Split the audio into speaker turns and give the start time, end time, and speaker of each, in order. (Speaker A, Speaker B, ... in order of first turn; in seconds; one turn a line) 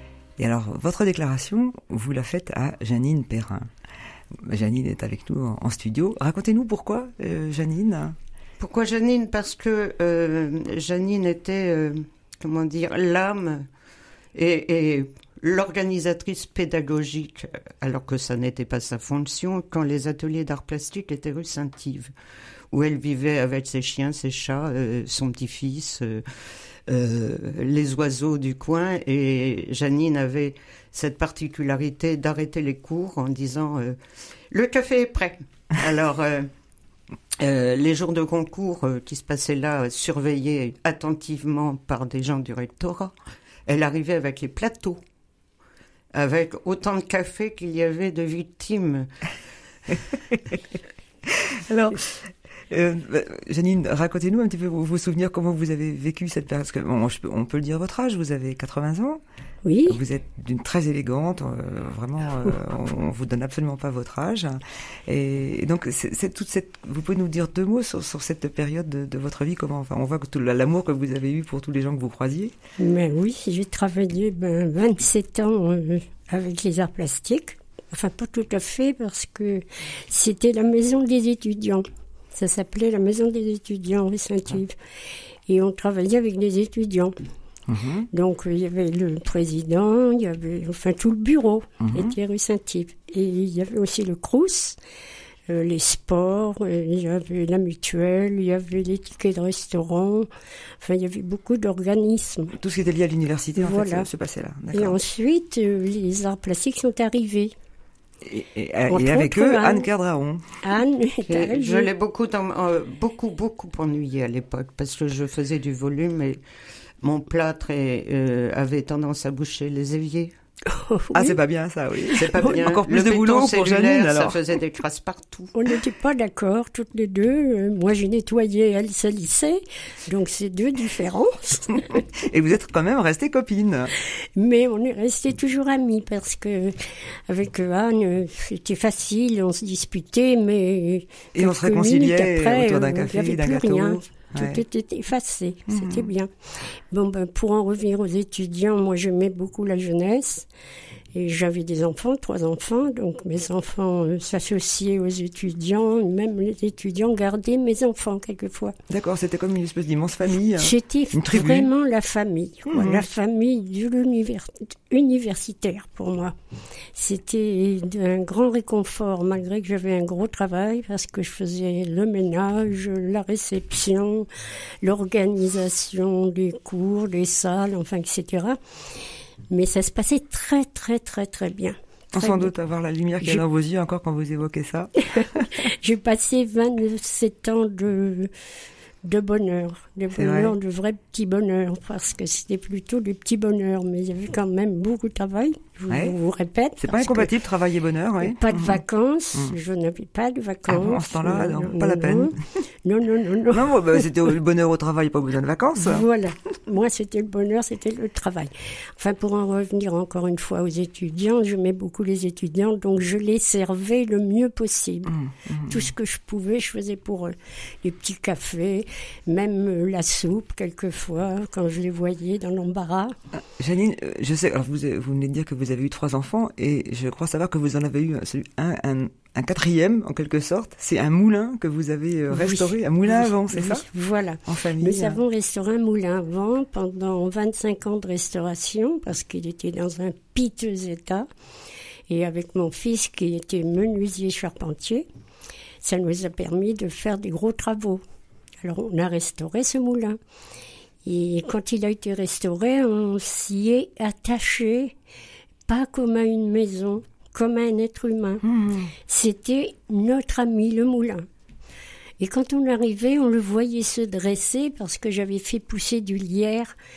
Speaker A: 0.4-3.7
Speaker A: 4.3-8.2
Speaker B: 8.6-13.7
Speaker B: 14.3-22.1
Speaker B: 22.7-26.2
Speaker B: 26.9-34.0
Speaker B: 34.5-36.5
Speaker B: 37.4-43.1
Speaker B: 43.7-45.0
Speaker B: 46.1-49.1
Speaker A: 50.1-50.6
Speaker A: 51.2-59.2
Speaker C: 59.6-60.0
Speaker A: 59.9-72.5
Speaker C: 72.8-84.8
Speaker C: 85.5-87.2
Speaker A: 87.7-88.1
Speaker C: 88.1-94.8
Speaker A: 91.8-92.2
Speaker C: 95.5-100.3
Speaker C: 100.8-102.6
Speaker A: 102.5-105.0
Speaker C: 103.6-104.1
Speaker C: 104.7-107.5
Speaker A: 108.2-110.5
Speaker C: 108.9-109.9
Speaker C: 110.6-111.9
Speaker B: 111.3-116.4
Speaker B: 117.0-120.3
Speaker C: 120.7-121.4
Speaker A: 121.1-124.4
Speaker B: 122.1-125.5
Speaker C: 125.5-132.0
Speaker A: 131.9-133.9
Speaker C: 134.4-136.8
Speaker C: 137.3-150.5
Speaker A: 141.3-144.6
Speaker A: 145.7-146.1
Speaker C: 151.1-158.8
Speaker A: 158.9-161.7
Speaker C: 160.6-166.3
Speaker A: 162.7-163.1
Speaker C: 166.9-174.3
Speaker C: 174.8-178.6
Speaker C: 179.5-182.5
Speaker A: 182.1-185.7
Speaker C: 185.2-188.3
Speaker C: 189.0-197.3
Speaker A: 190.1-190.6
Speaker A: 195.9-196.2
Speaker A: 196.8-198.8
Speaker C: 198.2-204.1
Speaker A: 200.7-202.4
Speaker A: 203.5-206.1
Speaker C: 205.8-215.2
Speaker A: 215.1-215.9
Speaker C: 215.7-223.2
Speaker A: 223.6-233.9
Speaker C: 232.3-241.3
Speaker A: 234.4-235.2
Speaker C: 242.1-245.1
Speaker C: 245.8-248.0
Speaker C: 248.6-250.2
Speaker C: 251.1-254.9
Speaker C: 255.7-258.4
Speaker A: 258.4-258.9
Speaker C: 259.1-261.3
Speaker C: 262.2-266.7